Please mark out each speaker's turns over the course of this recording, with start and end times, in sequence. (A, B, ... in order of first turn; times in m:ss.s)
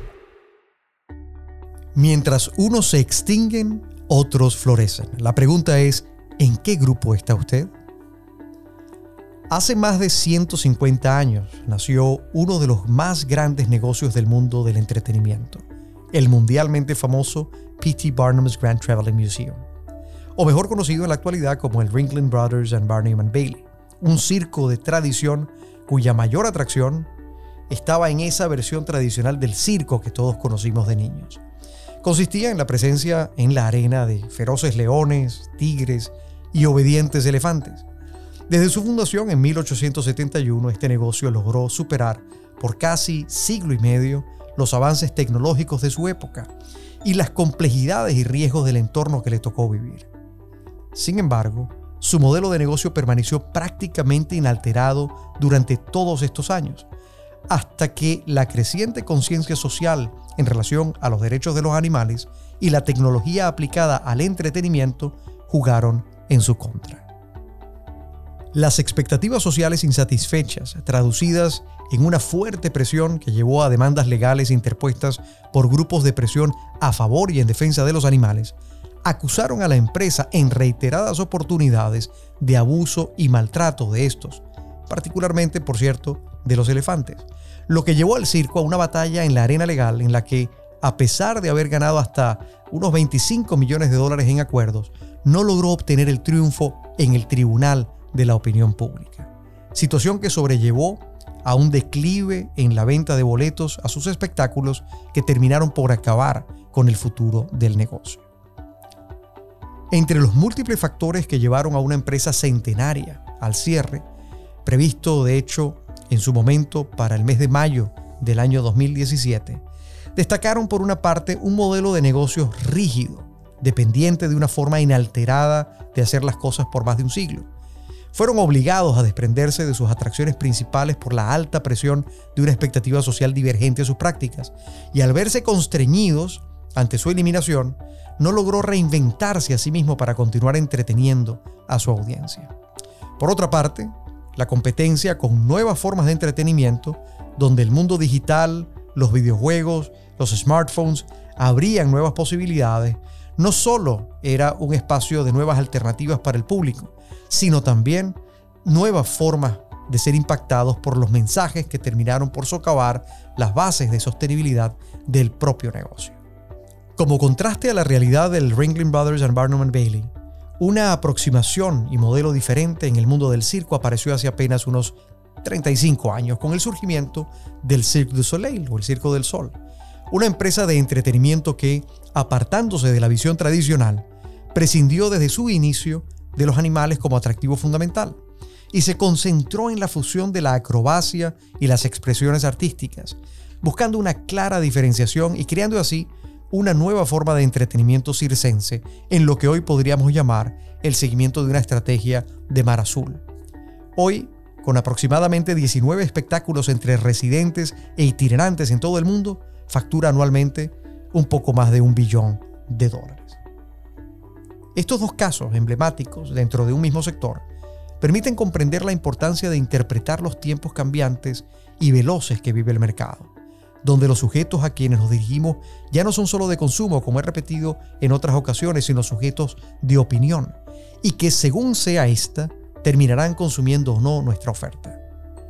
0:02.0-0:07.7 A
0:09.5-0:19.6 A
0:20.4-0:27.1 A
0:27.7-0:31.4 A
0:32.0-0:37.8 A
0:38.5-0:46.5 A
0:47.0-0:50.1 A
0:50.9-0:56.9 A
0:57.5-1:07.1 A
1:08.5-1:48.2 A
1:49.9-1:54.0 A
1:54.6-1:59.6 A
2:00.2-2:07.5 A
2:08.1-2:22.5 A
2:23.2-2:46.2 A
2:47.0-2:59.6 A
3:00.1-3:08.2 A
3:08.7-3:23.2 A
3:24.0-3:33.4 A
3:34.8-3:37.4 A
3:38.0-3:43.3 A
3:43.8-3:55.0 A